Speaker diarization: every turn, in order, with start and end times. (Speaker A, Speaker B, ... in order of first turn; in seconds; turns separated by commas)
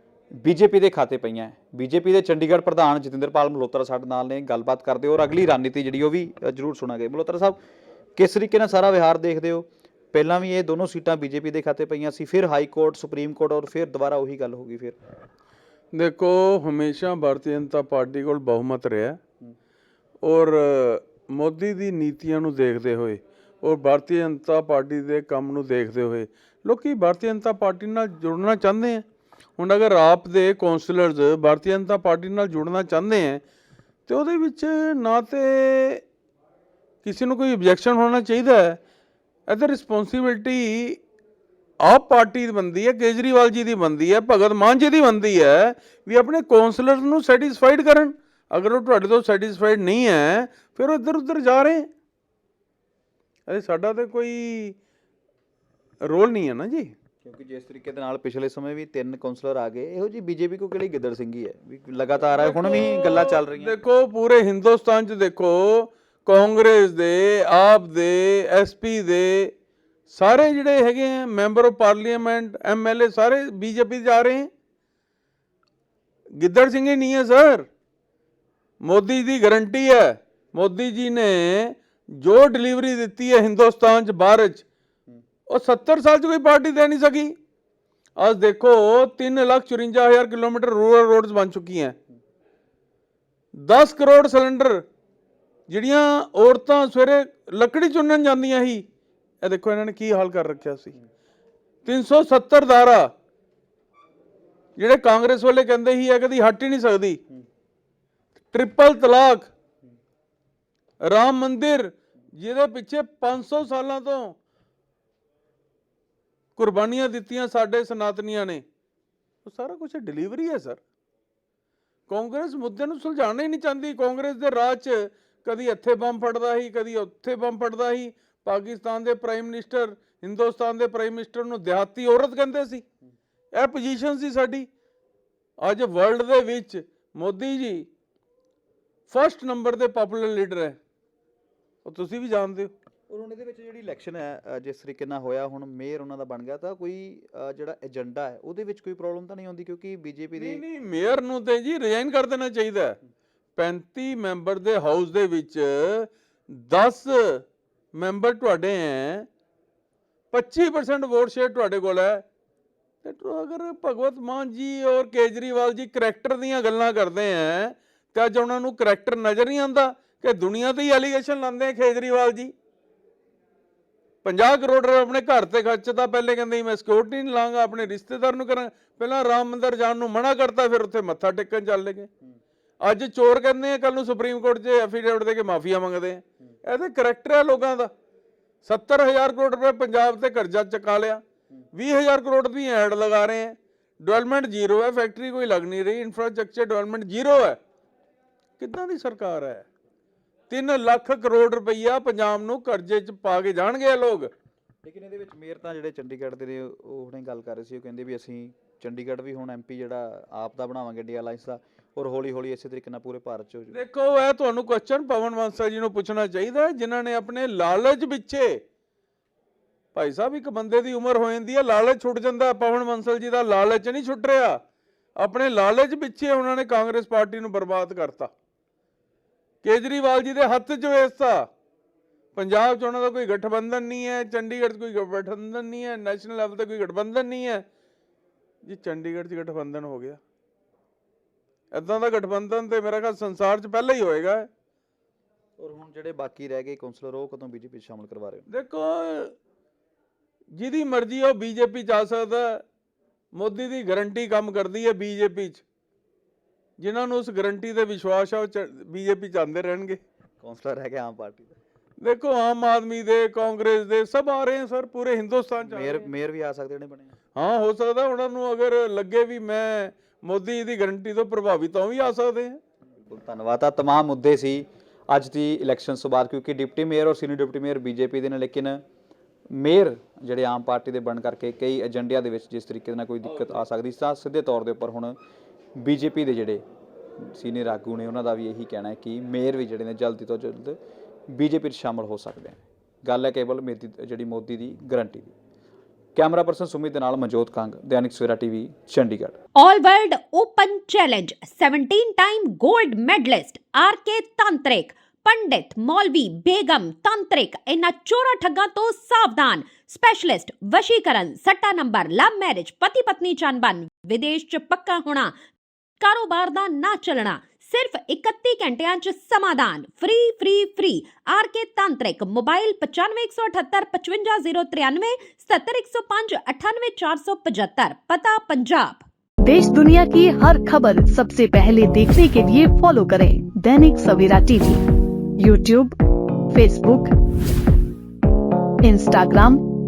Speaker A: 0.4-7.6, Speaker A: 8.2-15.0, Speaker B: 15.9-19.2, Speaker B: 20.2-29.1, Speaker B: 29.6-33.4, Speaker B: 34.1-36.0, Speaker B: 37.0-38.8, Speaker B: 39.5-41.0, Speaker B: 41.9-51.9, Speaker B: 53.5-54.8, Speaker B: 56.0-57.0, Speaker A: 57.2-63.8, Speaker B: 62.3-69.5, Speaker B: 70.1-74.5, Speaker B: 76.4-77.7, Speaker B: 78.8-84.7, Speaker B: 85.5-87.3, Speaker B: 88.2-92.0, Speaker B: 93.5-94.9, Speaker B: 95.7-98.8, Speaker B: 99.4-101.0, Speaker B: 101.8-103.1, Speaker B: 104.8-107.2, Speaker B: 108.5-109.5, Speaker B: 111.0-114.4, Speaker B: 116.6-118.6, Speaker B: 119.5-120.8, Speaker B: 122.1-132.8, Speaker B: 133.5-134.7, Speaker B: 135.6-137.9, Speaker B: 139.1-140.8, Speaker B: 141.8-142.7, Speaker A: 143.1-150.6, Speaker B: 150.4-153.0, Speaker B: 153.6-159.3, Speaker B: 160.3-162.2, Speaker B: 163.0-172.5, Speaker B: 174.2-182.1, Speaker B: 182.8-187.9, Speaker B: 188.6-191.2, Speaker B: 191.7-197.6, Speaker B: 198.6-199.7, Speaker B: 200.5-204.3, Speaker A: 204.8-213.8, Speaker B: 213.7-218.6, Speaker B: 219.9-224.6, Speaker B: 225.2-228.3, Speaker B: 229.6-231.5, Speaker B: 232.3-237.7, Speaker B: 238.7-240.2, Speaker B: 241.7-244.5, Speaker A: 245.6-248.5, Speaker B: 248.5-249.4, Speaker B: 250.6-252.7, Speaker B: 253.3-255.6, Speaker B: 256.8-260.0, Speaker A: 260.4-261.6, Speaker B: 262.0-266.1, Speaker A: 265.6-267.1, Speaker B: 267.4-272.6, Speaker A: 273.0-278.8, Speaker A: 279.5-285.2, Speaker A: 285.8-286.6, Speaker A: 287.2-290.8, Speaker A: 291.3-295.3, Speaker A: 296.1-299.4, Speaker C: 299.6-315.4, Speaker C: 316.0-329.0, Speaker D: 329.4-334.8, Speaker D: 335.4-336.0, Speaker D: 336.5-337.1, Speaker D: 338.8-339.6